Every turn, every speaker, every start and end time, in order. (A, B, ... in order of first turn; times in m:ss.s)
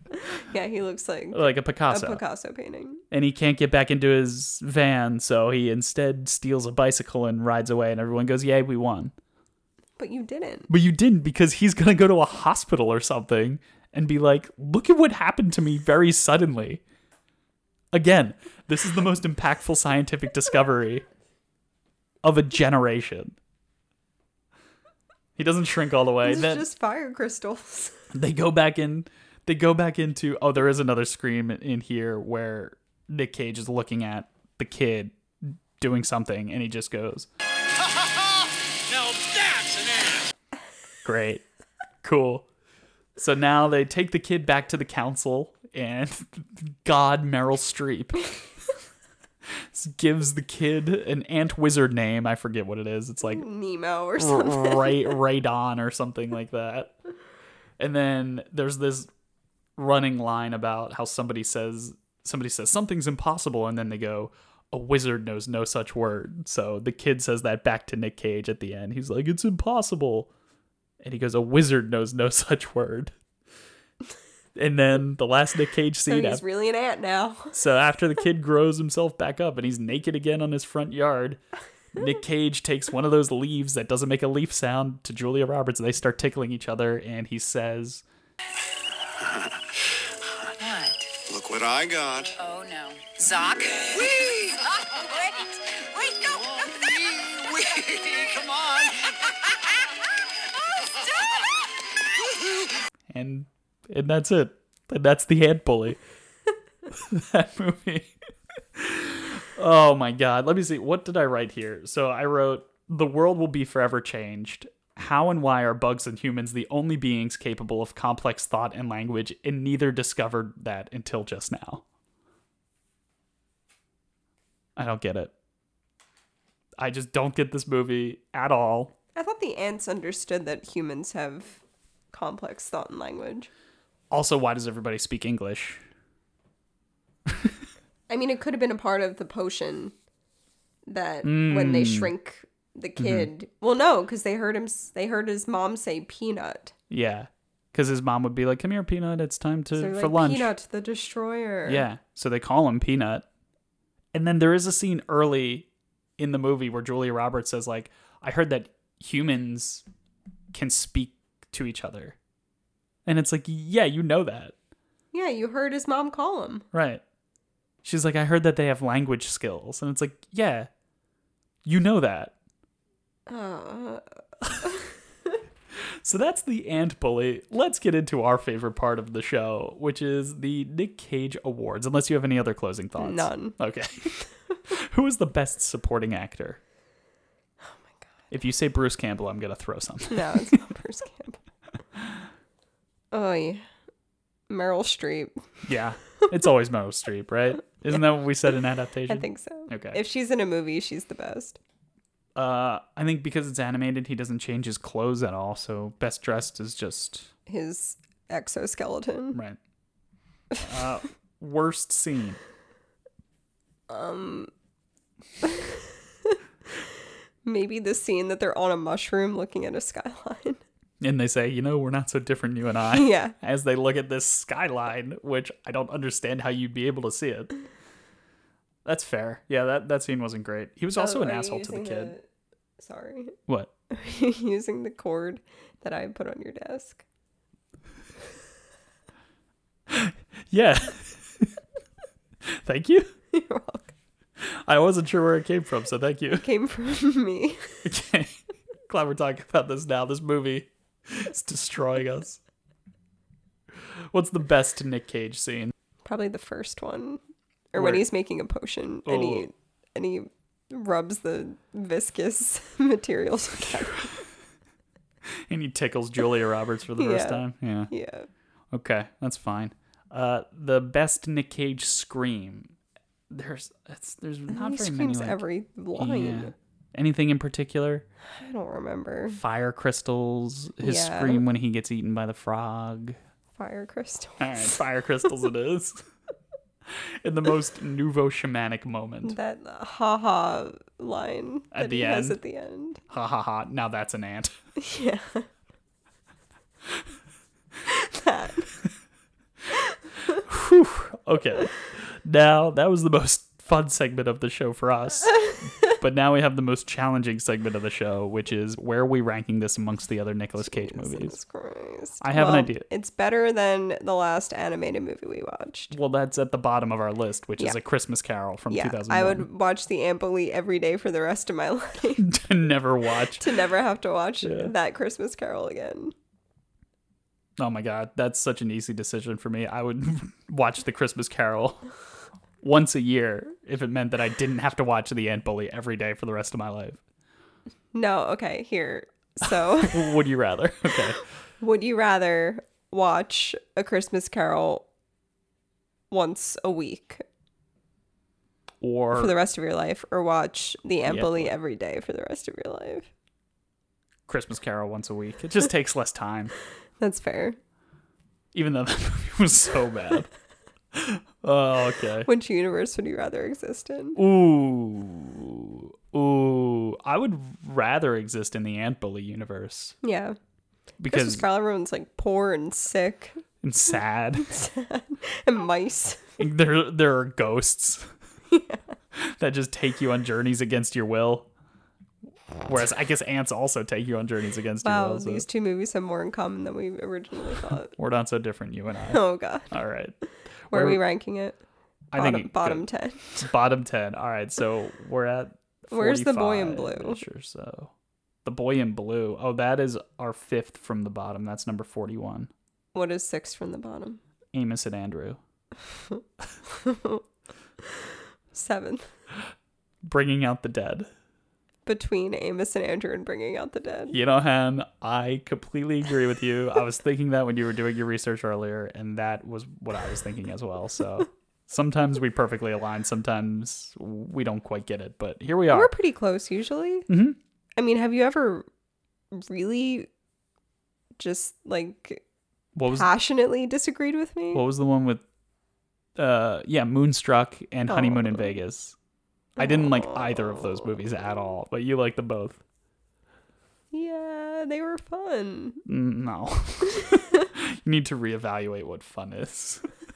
0:00.3-0:03.0 A
0:01.3-0:02.2 B
0:03.1-0:09.1 B
0:10.0-0:10.7 A
0:10.7-0:16.8 B
0:17.9-0:21.0 B
0:22.2-0:23.4 B
0:25.4-0:26.6 B
0:26.2-0:28.1 A
0:28.1-0:37.3 B
0:37.8-0:40.3 C
0:41.0-0:41.4 B
0:42.0-0:42.5 B
0:43.2-0:48.3 B
0:49.7-0:53.4 B
0:53.3-0:55.2 A
0:54.2-0:57.0 B
0:57.8-0:59.1 B
0:59.8-1:10.3 B
1:11.0-1:13.2 B
1:14.6-1:16.4 B
1:16.1-1:17.6 A
1:17.5-1:21.4 B
1:21.9-1:28.0 B
1:29.2-1:29.5 C
1:30.6-1:31.1 D
1:31.2-1:32.4 C
1:32.4-1:36.4 D
1:33.9-1:34.6 C
1:36.3-1:39.2 C
1:43.1-1:46.0 B
1:46.9-1:48.1 B
1:48.8-2:01.8 B
2:04.8-2:05.3 B
2:06.8-2:08.9 B
2:09.2-2:13.5 A
2:14.1-2:15.8 B
2:18.1-2:20.0 A
2:20.9-2:26.7 A
2:21.2-2:22.1 B
2:23.0-2:23.3 B
2:26.9-2:30.5 B
2:29.8-2:31.8 A
2:31.7-2:33.2 B
2:34.1-2:35.7 B
2:36.2-2:39.8 B
2:40.5-2:42.2 B
2:43.1-2:44.5 B
2:45.1-2:46.7 A
2:46.7-2:47.0 B
2:47.8-2:50.7 B
2:51.6-2:52.3 B
2:53.3-2:54.0 A
2:54.6-2:54.9 A
2:56.0-3:06.6 B
3:03.0-3:03.6 A
3:08.3-3:10.6 B
3:10.1-3:11.4 A
3:13.1-3:13.6 A
3:14.5-3:15.4 A
3:15.6-3:20.0 B
3:19.1-3:21.6 A
3:22.4-3:27.3 B
3:27.5-3:29.4 A
3:29.3-3:29.6 B
3:30.6-3:32.4 B
3:33.9-3:34.5 A
3:35.4-3:36.4 A
3:37.4-3:40.6 A
3:41.0-3:47.6 B
3:42.9-3:43.4 A
3:48.8-3:52.1 B
3:51.0-3:52.2 A
3:52.8-3:53.4 A
3:53.9-3:57.0 A
3:59.9-4:01.5 B
4:02.5-4:03.1 B
4:03.3-4:03.9 A
4:04.4-4:06.4 B
4:06.3-4:07.8 A
4:07.8-4:08.4 B
4:08.9-4:12.4 B
4:14.1-4:15.7 B
4:16.0-4:17.2 A
4:17.7-4:24.2 A
4:17.8-4:18.0 B
4:19.1-4:19.5 B
4:25.5-4:27.9 B
4:27.0-4:28.3 A
4:28.7-4:32.8 B
4:33.3-4:35.4 B
4:34.5-4:36.5 A
4:36.0-4:38.0 B
4:38.2-4:39.4 A
4:39.3-4:43.2 B
4:40.8-4:41.4 A
4:43.6-4:44.8 A
4:44.4-4:46.0 B
4:46.9-4:49.4 B
4:49.2-4:53.0 A
4:51.7-4:52.4 B
4:53.1-4:54.5 B
4:54.8-4:55.5 A
4:57.9-4:58.7 A
5:00.3-5:11.4 B
5:10.6-5:15.9 A
5:12.2-5:12.9 B
5:15.9-5:19.5 B
5:18.7-5:22.3 A
5:22.2-5:23.6 B
5:23.4-5:26.1 A
5:24.4-5:24.7 B
5:27.6-5:31.9 B
5:32.6-5:37.0 B
5:37.9-5:40.2 A
5:39.8-5:41.2 B
5:41.6-5:44.9 A
5:46.1-5:47.2 A
5:48.8-5:49.3 B
5:49.2-5:53.1 A
5:51.0-5:51.5 B
5:54.3-5:56.5 B
5:57.0-5:57.6 A
5:58.5-6:00.3 B
6:00.9-6:02.3 B
6:02.3-6:04.2 A
6:04.2-6:10.0 B
6:10.0-6:10.4 A
6:11.0-6:11.4 B
6:11.1-6:13.4 A
6:13.6-6:14.5 B
6:14.4-6:16.4 A
6:16.4-6:18.1 B
6:18.5-6:19.0 A
6:19.1-6:21.5 B
6:22.6-6:25.4 B
6:24.8-6:27.9 A
6:27.9-6:30.2 B
6:29.1-6:29.7 A
6:30.7-6:31.0 B
6:30.7-6:31.6 A
6:32.1-6:32.9 B
6:32.2-6:33.5 A
6:33.4-6:37.9 B
6:35.9-6:37.2 A
6:38.4-6:42.5 B
6:42.9-6:44.2 A
6:44.5-6:45.4 B
6:46.1-6:47.2 A
6:48.5-6:49.1 A
6:50.1-6:51.1 B
6:51.9-6:54.2 A
6:54.1-7:05.9 B
7:05.7-7:07.1 A
7:07.1-7:07.4 B
7:07.8-7:08.7 A
7:09.3-7:10.1 A
7:11.2-7:12.2 A
7:12.8-7:13.1 B
7:12.9-7:14.6 A
7:14.5-7:15.2 B
7:16.2-7:19.0 B
7:17.9-7:18.6 A
7:19.6-7:20.4 A
7:19.6-7:22.6 B
7:23.9-7:25.8 A
7:25.9-7:29.9 B